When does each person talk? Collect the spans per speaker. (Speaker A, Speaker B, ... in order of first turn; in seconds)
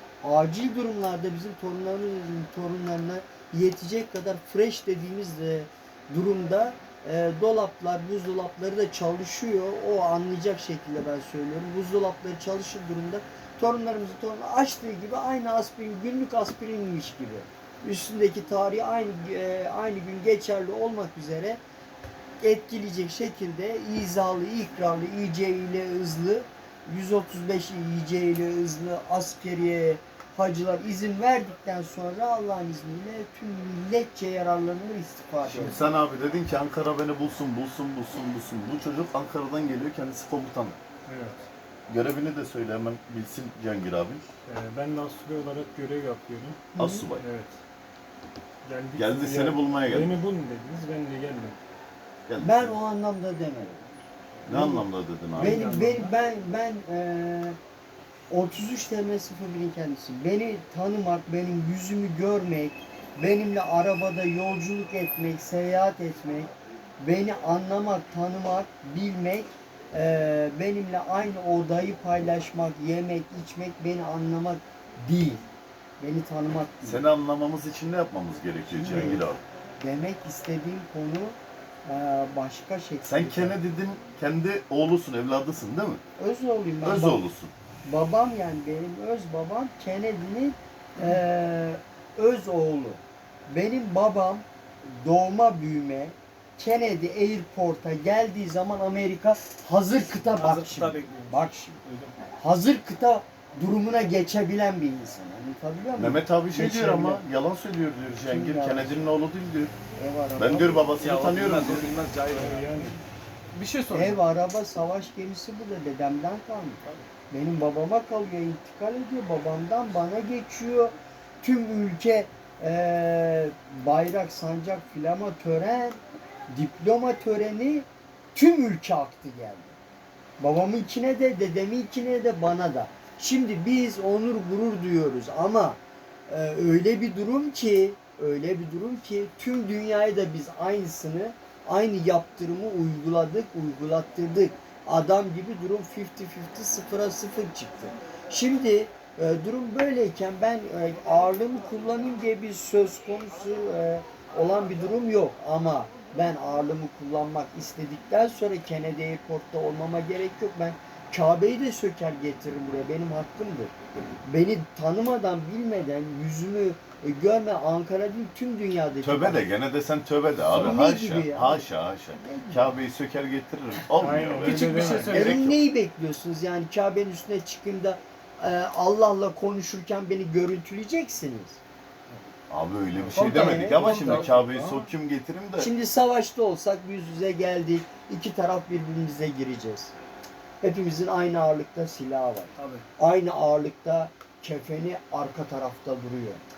Speaker A: 0.2-21.6, 22.4-35.8, 46.7-47.1, 52.4-53.9, 54.5-57.6, 58.3-75.4, 76.0-77.0, 78.7-79.3, 79.8-83.6, 86.2-87.2, 87.8-101.8, 102.4-107.2, 108.2-109.1, 110.0-110.9, 113.9-126.0, 126.5-129.7, 130.4-163.7, 164.3-169.5, 170.4-172.7, 175.0-181.6, 183.3-184.3, 185.6-189.9, 190.6-196.4
Speaker B: 35.4-40.8, 41.9-44.2, 46.8-47.3, 48.9-50.2, 52.3-52.8, 54.5-55.7, 76.8-79.4, 83.0-86.0, 86.8-87.5, 106.0-109.8, 110.4-111.9, 169.0-175.6, 182.5-185.7
Speaker C: 41.1-41.5, 44.5-47.6, 48.6-51.6, 55.4-56.1, 112.3-113.0, 173.9-175.3
Speaker D: 100.3-102.1, 111.0-113.0, 113.5-114.2, 174.4-175.4, 183.1-184.8, 192.6-192.8